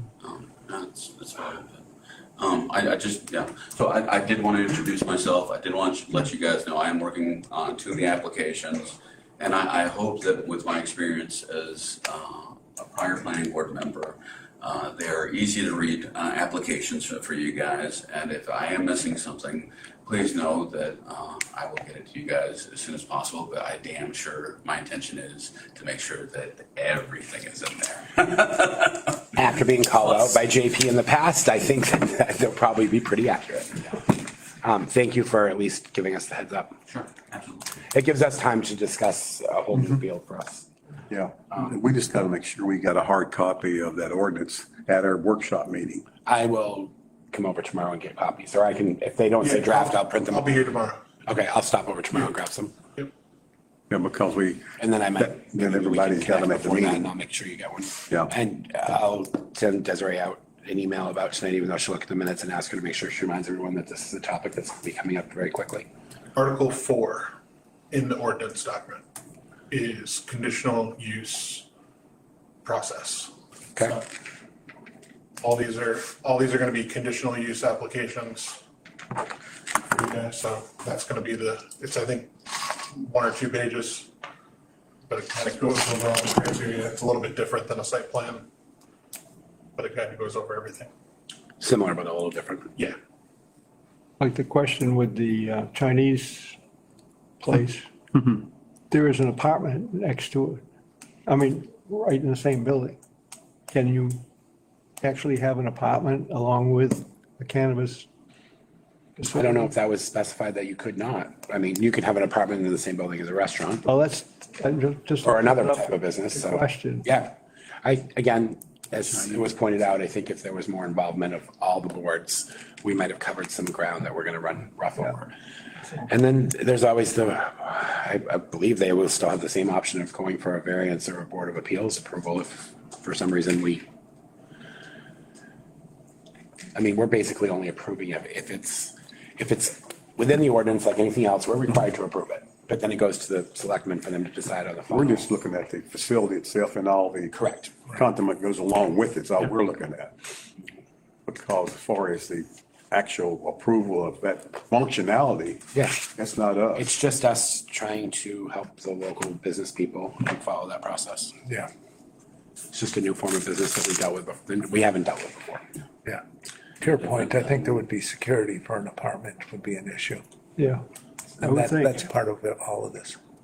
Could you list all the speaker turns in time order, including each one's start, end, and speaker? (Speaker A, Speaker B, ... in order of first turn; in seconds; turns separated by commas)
Speaker A: 0.2-1.8, Speaker A: 2.4-29.1, Speaker B: 29.3-34.0, Speaker B: 34.6-36.8, Speaker A: 36.9-37.7, Speaker B: 37.9-40.7, Speaker C: 41.1-46.0, Speaker B: 46.2-50.5, Speaker D: 49.4-51.0, Speaker B: 51.2-52.7, Speaker C: 53.9-54.7, Speaker B: 54.8-65.9, Speaker C: 55.2-57.0, Speaker D: 66.3-67.3, Speaker D: 67.9-69.0, Speaker D: 69.7-71.7, Speaker D: 72.6-73.3, Speaker D: 75.4-78.6, Speaker D: 79.9-84.1, Speaker D: 85.1-88.5, Speaker D: 89.8-90.9, Speaker B: 91.6-92.7, Speaker E: 94.2-96.6, Speaker E: 97.4-97.9, Speaker E: 98.9-100.6, Speaker E: 101.2-103.0, Speaker E: 103.7-104.2, Speaker E: 105.0-108.1, Speaker E: 109.2-109.7, Speaker B: 109.3-113.9, Speaker E: 113.8-117.1, Speaker B: 115.2-125.3, Speaker B: 126.0-133.8, Speaker B: 136.7-145.3, Speaker C: 144.9-147.3, Speaker B: 147.3-147.7, Speaker C: 147.9-150.2, Speaker C: 151.2-156.9, Speaker B: 155.7-156.0, Speaker B: 156.7-161.3, Speaker B: 162.7-165.6, Speaker F: 166.8-170.2, Speaker E: 170.6-170.8, Speaker E: 171.4-172.0, Speaker F: 171.4-173.1